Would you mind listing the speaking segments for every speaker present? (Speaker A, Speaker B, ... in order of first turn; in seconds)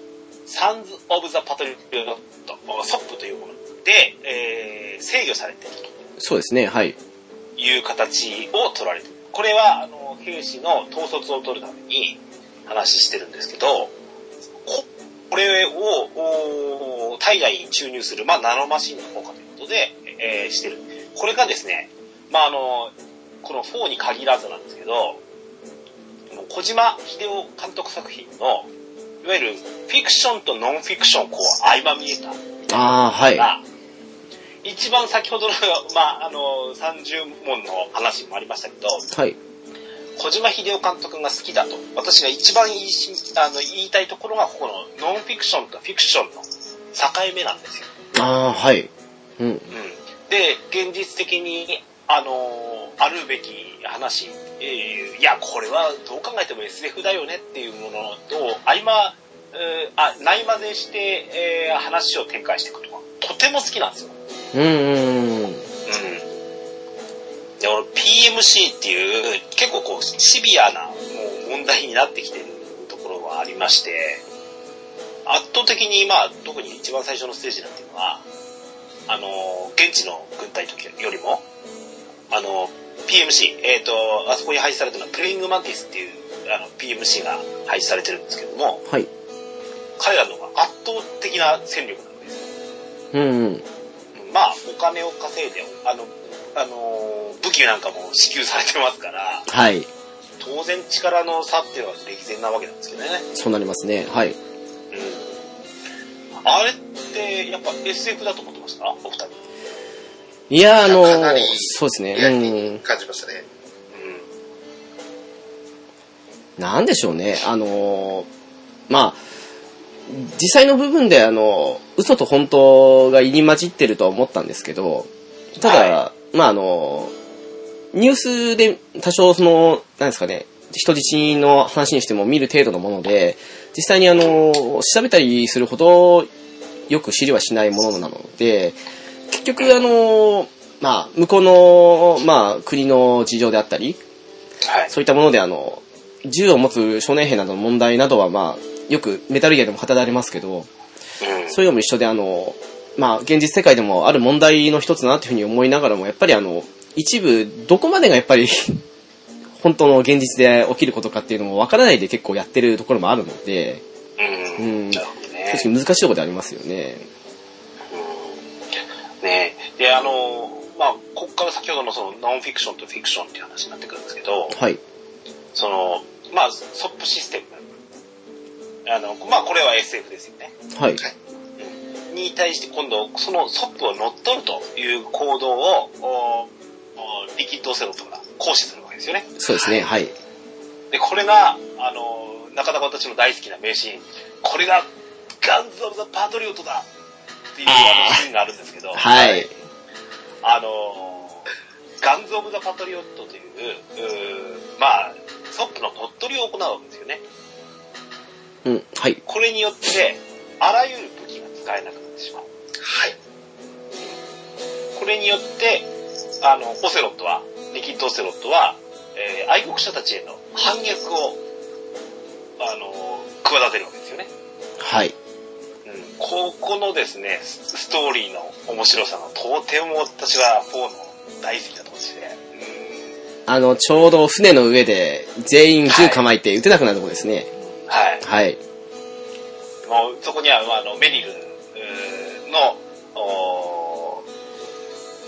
Speaker A: 0.5-5.9, 7.6-13.9, 14.6-25.2, 26.3-28.7, 29.2-33.6, 34.6-39.1, 40.2-47.9, 49.7-64.1, 65.9-66.3, 67.6-74.2, 75.2-78.2, 79.1-81.4, 82.3-88.8, 90.0-92.5, 94.2-99.5, 100.4-103.2, 104.9-105.3, 106.4-109.4, 113.9-114.3, 125.6-126.0, 144.6-144.9, 151.2-151.6, 164.2-165.7, 167.9-168.4, 169.2-174.6, 175.5-177.7, 178.8-180.5, 181.6-189.3, 190.9-194.9, 195.4-196.9, 197.5-199.5, 200.4-201.5, 202.0-207.2, 209.2-212.5, 214.9-215.9, 216.4-221.4, 222.6-224.3, 225.8-233.0, 235.9-236.2, 237.8-238.2, 239.8-244.2
Speaker B: 6.2-7.0, 32.7-33.5, 39.1-39.4, 48.1-49.6, 64.5-65.6, 93.1-93.6, 99.5-99.9, 103.3-104.3, 110.5-112.8, 116.6-118.3, 118.9-119.2, 120.1-127.1, 127.9-136.3, 136.9-138.8, 139.3-144.0, 144.9-150.7, 151.5-158.8, 159.6-163.8, 164.6-167.0, 174.5-174.8, 180.7-181.0, 189.4-190.1, 197.7-198.2, 198.9-199.5, 208.6-209.2, 224.8-225.1, 233.5-237.5, 238.2-238.6
Speaker C: 110.8-113.4, 212.8-213.2